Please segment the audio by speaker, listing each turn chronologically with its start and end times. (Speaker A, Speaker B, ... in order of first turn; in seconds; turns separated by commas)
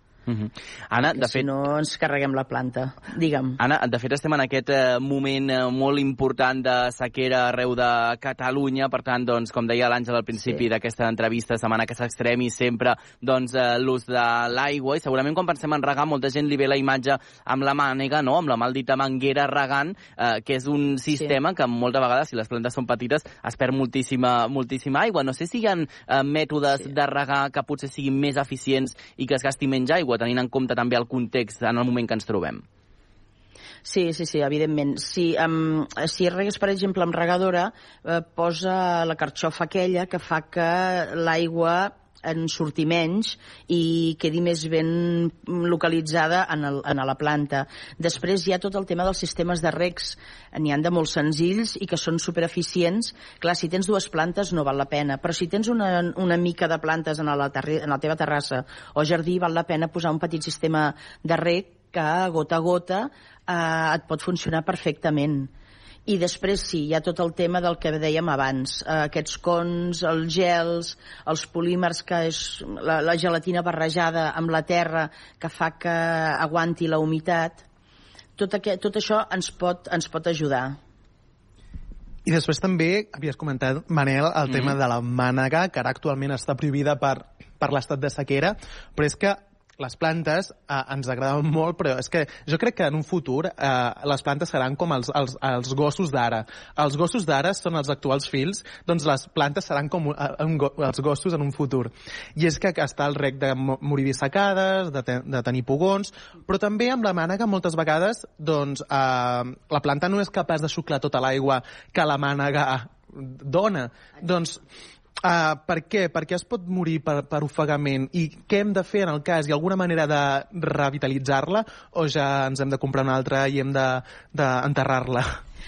Speaker A: 0.3-1.4, Speaker B: 1.1-3.6, Speaker A: 3.6-32.6, Speaker B: 33.8-65.5, Speaker B: 66.1-77.6, Speaker B: 78.4-80.8, Speaker C: 82.2-114.6, Speaker A: 84.5-84.8, Speaker C: 115.2-125.3